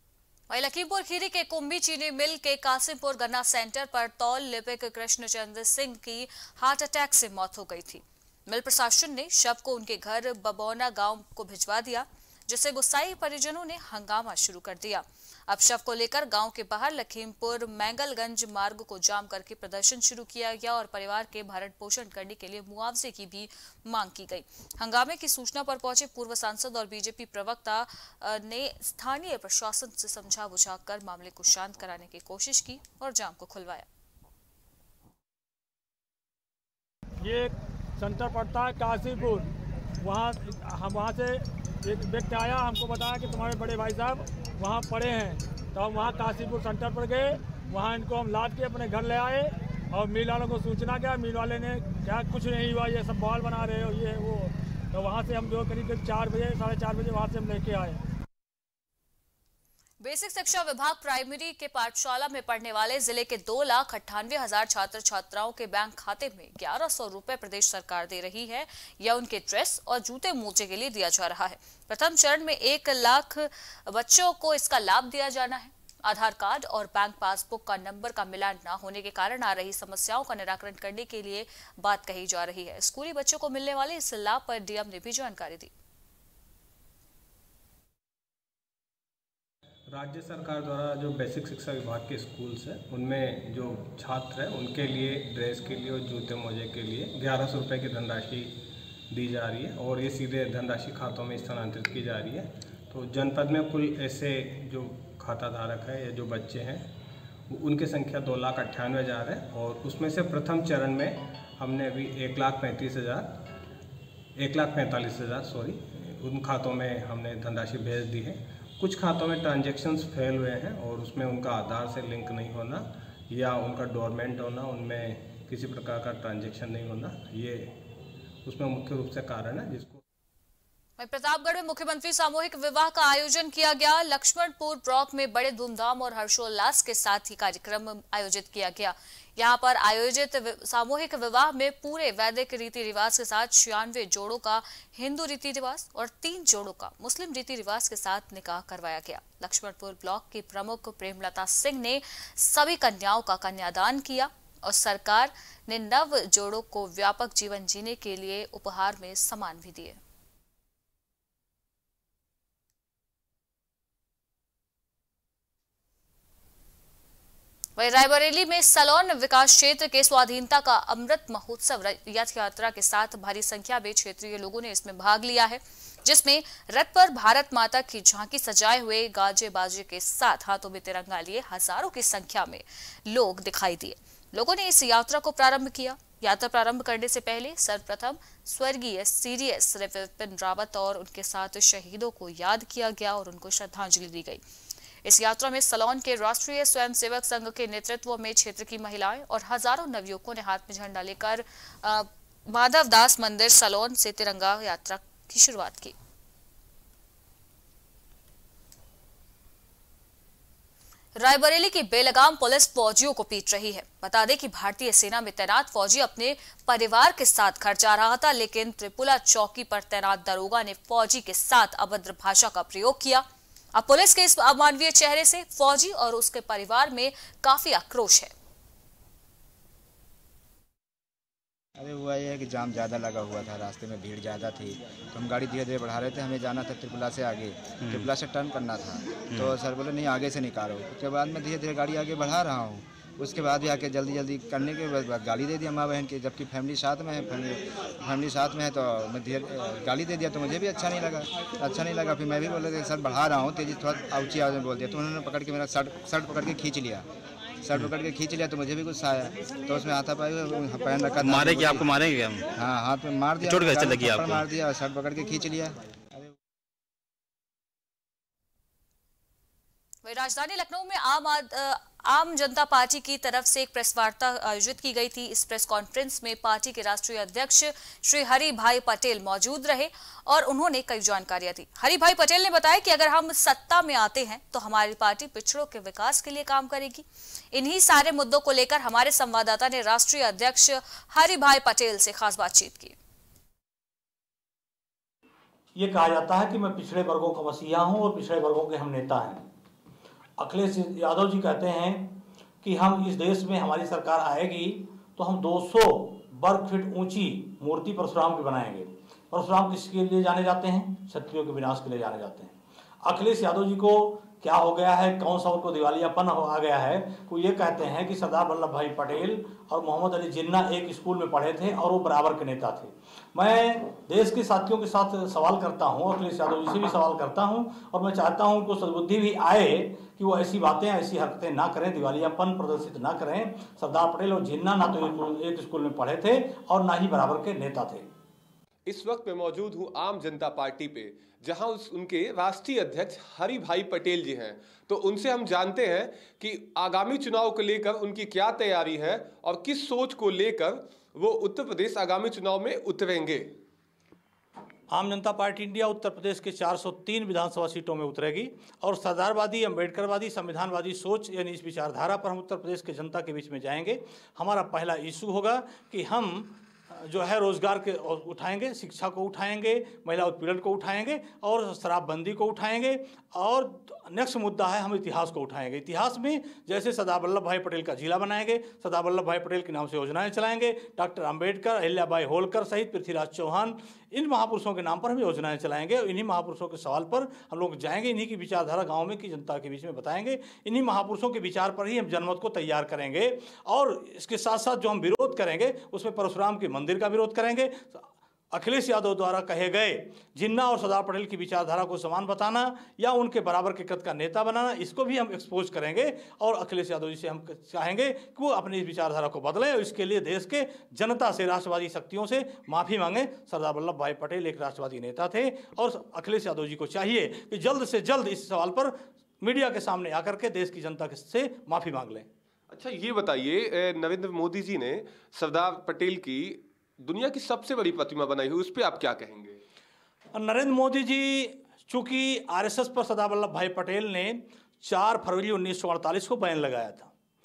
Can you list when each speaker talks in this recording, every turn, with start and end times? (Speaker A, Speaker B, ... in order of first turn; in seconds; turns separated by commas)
Speaker A: 0.5-33.9, Speaker B: 37.2-39.5, Speaker B: 40.0-58.0, Speaker A: 60.0-85.7, Speaker C: 89.9-106.9, Speaker C: 107.5-113.4, Speaker C: 114.4-127.8, Speaker C: 128.4-130.0, Speaker A: 131.0-160.0, Speaker A: 167.8-194.4, Speaker A: 195.0-205.9, Speaker A: 211.2-228.3, Speaker D: 231.8-257.1, Speaker E: 237.8-238.1, Speaker D: 257.6-262.0, Speaker E: 261.2-262.5, Speaker D: 262.5-266.3, Speaker E: 263.4-264.4, Speaker A: 270.0-292.9, Speaker F: 295.8-299.5, Speaker F: 300.4-338.1, Speaker G: 338.9-353.5, Speaker F: 354.9-422.3, Speaker G: 422.7-429.6, Speaker F: 430.3-437.1